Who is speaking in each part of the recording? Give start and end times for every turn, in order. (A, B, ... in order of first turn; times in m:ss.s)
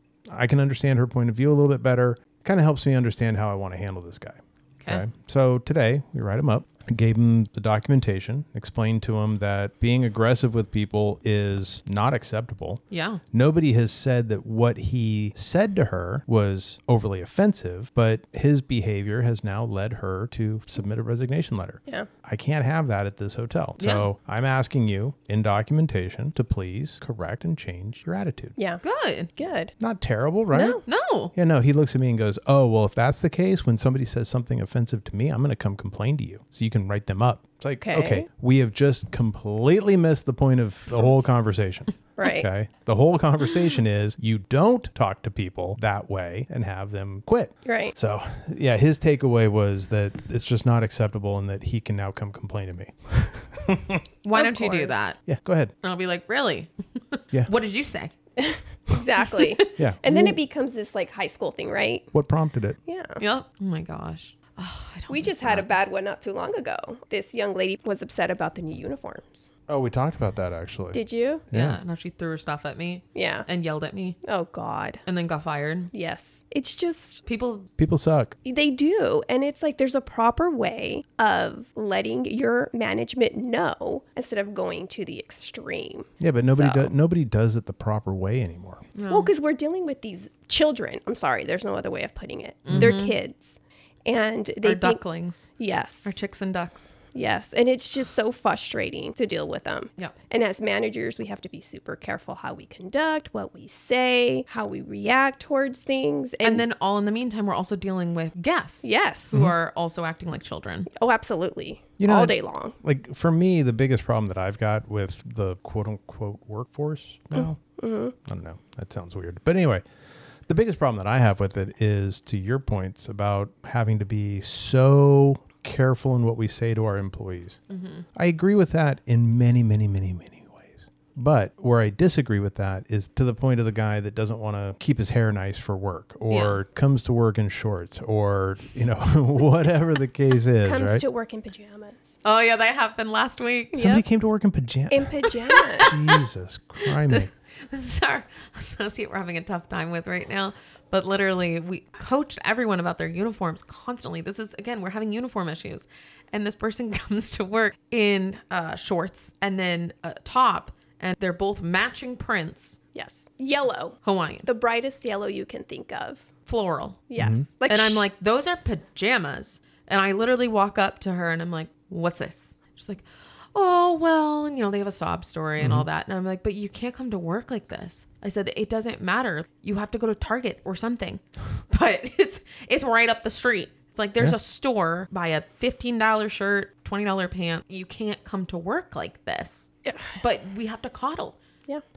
0:00.3-0:28.6 A
0:12.9-0:13.2 B
0:23.8-0:24.0 B
0:28.6-0:28.8 C
0:28.8-0:29.3 B
0:29.4-0:29.7 C
0:29.8-0:30.8 A
0:30.5-0:30.8 C
0:30.8-0:31.3 B
0:31.3-0:54.0 A
0:37.8-0:38.3 C
0:42.2-0:42.5 C
0:47.6-0:48.0 C
0:54.2-0:55.2 B
0:54.3-0:55.0 C
0:55.3-0:55.7 A
0:55.8-0:58.1 B
0:58.4-1:02.1 C
0:59.3-0:59.7 B
0:59.8-1:00.4 A
1:02.1-1:02.8 A
1:02.9-1:03.2 C
1:03.2-1:05.7 B
1:05.1-1:09.5 C
1:09.7-1:11.0 A
1:10.9-1:11.4 C
1:11.5-1:11.8 A
1:11.5-1:14.2 B
1:13.2-1:13.5 C
1:14.2-1:15.0 C
1:15.1-1:15.9 B
1:15.9-1:17.2 C
1:17.3-1:17.7 B
1:17.8-1:18.4 A
1:18.4-1:26.9 C
1:26.2-1:28.8 A
1:29.0-1:29.3 B
1:29.1-1:35.0 C
1:32.7-1:33.2 B
1:32.7-1:33.0 A
1:34.6-1:35.5 B
1:35.6-1:36.2 C
1:36.0-1:36.9 B
1:37.1-1:46.7 C
1:46.4-1:50.9 B
1:48.8-1:49.4 C
1:50.9-1:52.8 C
1:52.0-1:57.6 A
1:57.8-1:58.2 C
1:58.2-1:59.8 A
2:00.5-2:07.6 A
2:07.7-2:08.0 B
2:08.1-2:21.0 A
2:16.3-2:16.6 B
2:20.6-2:22.2 C
2:22.2-2:23.8 B
2:23.7-2:24.0 C
2:23.8-2:25.2 A
2:24.9-2:26.0 C
2:25.5-2:26.0 B
2:25.8-2:27.3 A
2:26.9-2:42.8 B
2:42.9-2:46.3 C
2:44.0-2:44.5 B
2:46.5-2:47.1 B
2:47.1-2:48.1 C
2:47.2-2:47.5 A
2:47.7-3:11.4 B
2:55.6-2:55.9 A
3:09.8-3:10.2 C